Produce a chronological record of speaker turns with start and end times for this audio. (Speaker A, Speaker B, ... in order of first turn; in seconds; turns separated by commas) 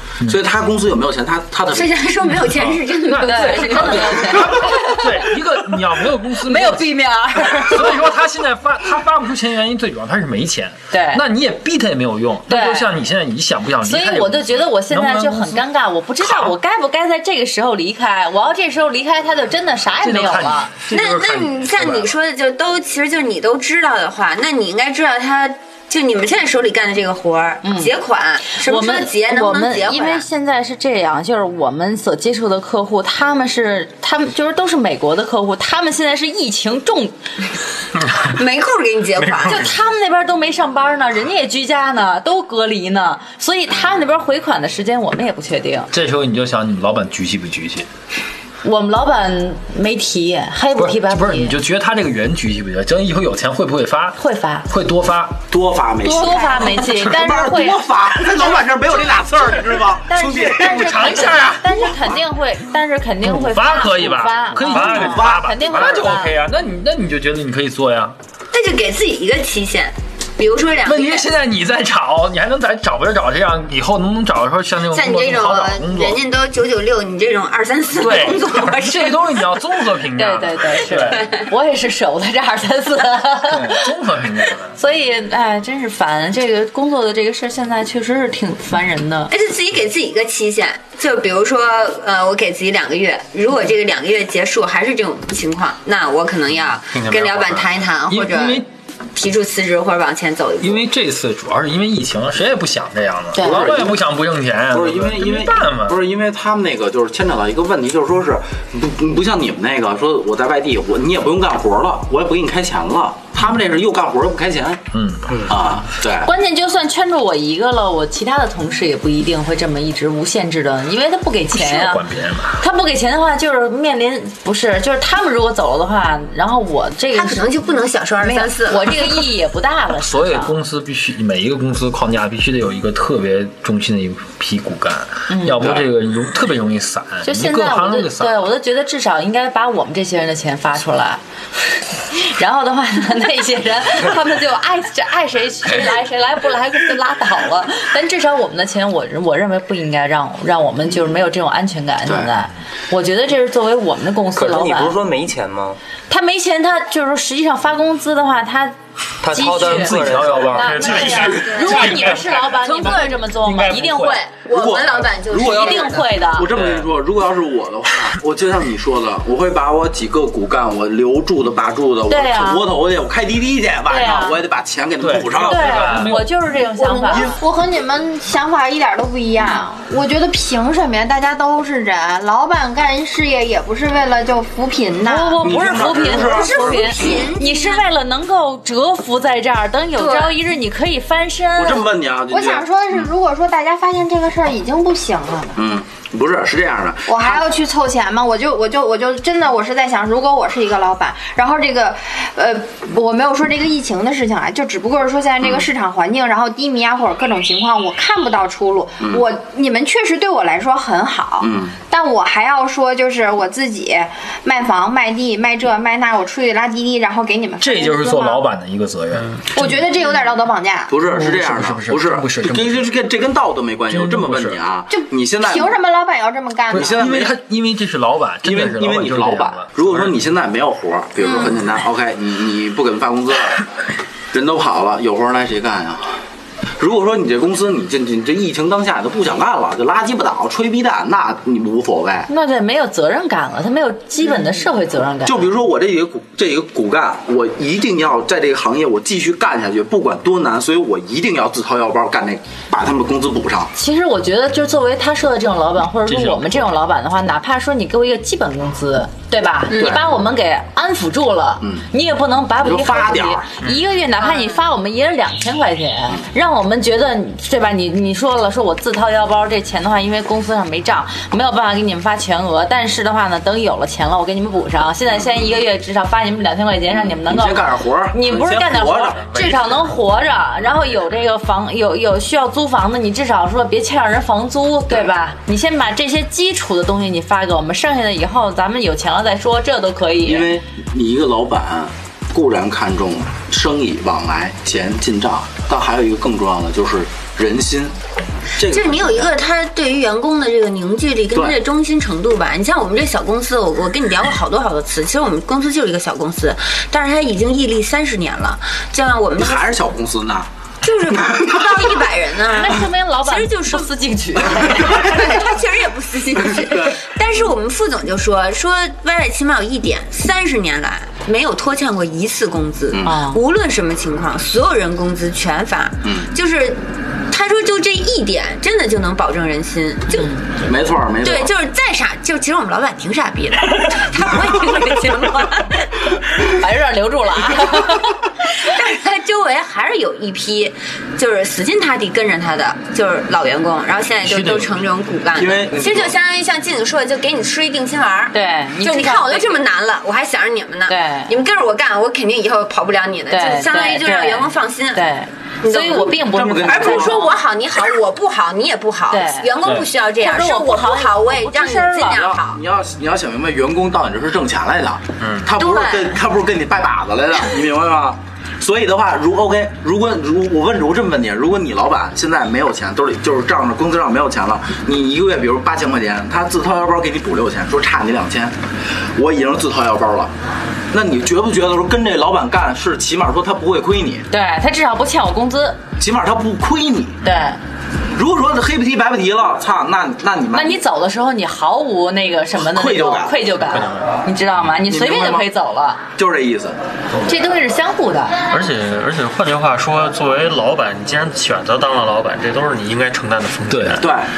Speaker A: 0.2-1.9, Speaker B: 1.7-4.5, Speaker C: 3.0-7.0, Speaker D: 3.2-5.3, Speaker D: 6.4-8.0, Speaker C: 7.6-15.6, Speaker D: 10.9-11.2, Speaker D: 12.5-12.9, Speaker D: 13.8-20.7, Speaker C: 16.2-16.6, Speaker C: 20.0-22.1, Speaker B: 20.9-30.3, Speaker D: 27.6-27.9, Speaker D: 28.5-37.2, Speaker B: 38.2-39.7, Speaker E: 39.2-39.5, Speaker D: 39.4-45.9, Speaker C: 45.9-47.9, Speaker D: 48.6-51.6, Speaker C: 50.8-55.4, Speaker D: 54.2-54.7, Speaker A: 55.5-61.4, Speaker D: 56.0-57.8, Speaker F: 56.2-56.7, Speaker D: 60.1-66.4, Speaker C: 60.6-61.9, Speaker C: 63.2-68.2, Speaker A: 64.7-65.5, Speaker E: 64.7-65.0, Speaker B: 68.5-71.3, Speaker C: 70.8-76.2, Speaker B: 74.9-79.4, Speaker C: 78.0-81.2, Speaker D: 80.2-83.9, Speaker B: 81.2-81.5, Speaker C: 83.5-84.8, Speaker D: 84.8-89.3, Speaker B: 89.3-100.8, Speaker E: 96.9-97.7, Speaker C: 98.1-98.7, Speaker C: 100.6-106.0, Speaker D: 103.3-103.7, Speaker A: 103.4-104.0, Speaker A: 104.7-114.8, Speaker C: 114.9-115.4, Speaker G: 115.3-115.5, Speaker A: 115.5-116.3, Speaker D: 116.2-122.0, Speaker C: 121.5-122.6, Speaker D: 122.5-127.6, Speaker B: 127.1-129.3, Speaker D: 128.2-130.6, Speaker C: 129.9-138.5, Speaker D: 135.3-135.8, Speaker D: 137.2-141.2, Speaker D: 142.1-155.0, Speaker A: 152.1-152.3, Speaker G: 154.3-155.8, Speaker D: 156.1-158.8, Speaker G: 159.2-160.8, Speaker D: 159.3-164.2, Speaker C: 159.4-162.4, Speaker E: 160.6-162.5, Speaker B: 161.1-162.0, Speaker B: 162.5-166.2, Speaker C: 163.6-164.2, Speaker A: 164.5-176.1, Speaker D: 165.4-166.5, Speaker E: 166.5-166.9, Speaker D: 172.1-172.6, Speaker D: 173.9-174.4, Speaker C: 175.0-176.3, Speaker D: 175.4-177.4, Speaker F: 176.8-185.5, Speaker D: 185.1-191.9, Speaker A: 185.4-186.9, Speaker B: 185.6-187.9, Speaker B: 190.0-190.4, Speaker A: 191.6-192.7, Speaker F: 192.3-195.6, Speaker A: 195.6-197.2, Speaker F: 197.1-218.4, Speaker A: 205.4-205.7, Speaker A: 211.4-211.8, Speaker C: 217.6-219.8, Speaker E: 219.1-219.4, Speaker F: 219.5-220.9, Speaker A: 220.9-225.7, Speaker C: 221.1-222.9, Speaker C: 223.9-224.6, Speaker F: 224.9-227.0, Speaker C: 226.7-230.2, Speaker A: 226.7-227.3, Speaker A: 228.4-233.7, Speaker B: 231.3-231.5, Speaker A: 234.3-236.2, Speaker A: 236.8-242.3, Speaker D: 242.3-245.5, Speaker A: 245.2-253.7, Speaker D: 253.8-290.5, Speaker C: 256.1-256.7, Speaker B: 259.7-260.0, Speaker A: 259.8-260.0, Speaker A: 261.6-261.9, Speaker A: 262.6-263.5, Speaker B: 264.2-264.6, Speaker A: 276.9-279.3, Speaker E: 279.3-279.9, Speaker A: 290.2-297.9, Speaker A: 298.6-299.3, Speaker B: 298.6-309.8, Speaker A: 301.3-301.6, Speaker A: 309.4-310.5, Speaker B: 310.8-313.9, Speaker A: 311.1-312.1, Speaker D: 312.5-315.1, Speaker B: 314.6-330.3, Speaker A: 314.8-315.1, Speaker A: 316.6-317.0, Speaker A: 322.9-323.2, Speaker D: 323.0-323.4, Speaker A: 326.0-326.3, Speaker D: 330.1-330.4, Speaker A: 330.6-331.5, Speaker B: 331.2-335.9, Speaker D: 336.5-338.2, Speaker B: 338.5-355.1, Speaker C: 344.2-344.8, Speaker A: 345.4-346.1, Speaker D: 348.3-349.6, Speaker D: 350.9-351.3, Speaker D: 353.3-357.4, Speaker B: 355.6-362.6, Speaker A: 356.3-357.3, Speaker D: 359.1-359.5, Speaker D: 360.2-362.4, Speaker A: 362.4-378.6, Speaker E: 365.2-365.5, Speaker B: 365.6-366.2, Speaker A: 379.1-380.3, Speaker A: 380.9-384.3, Speaker D: 384.3-385.8, Speaker A: 386.0-387.2, Speaker D: 387.2-387.6, Speaker A: 388.1-390.8, Speaker D: 390.5-396.0, Speaker A: 392.6-393.4, Speaker E: 393.7-394.2, Speaker A: 394.9-395.5, Speaker A: 396.2-396.8, Speaker D: 397.3-398.4, Speaker E: 398.5-404.1, Speaker C: 403.7-404.0, Speaker A: 404.0-404.3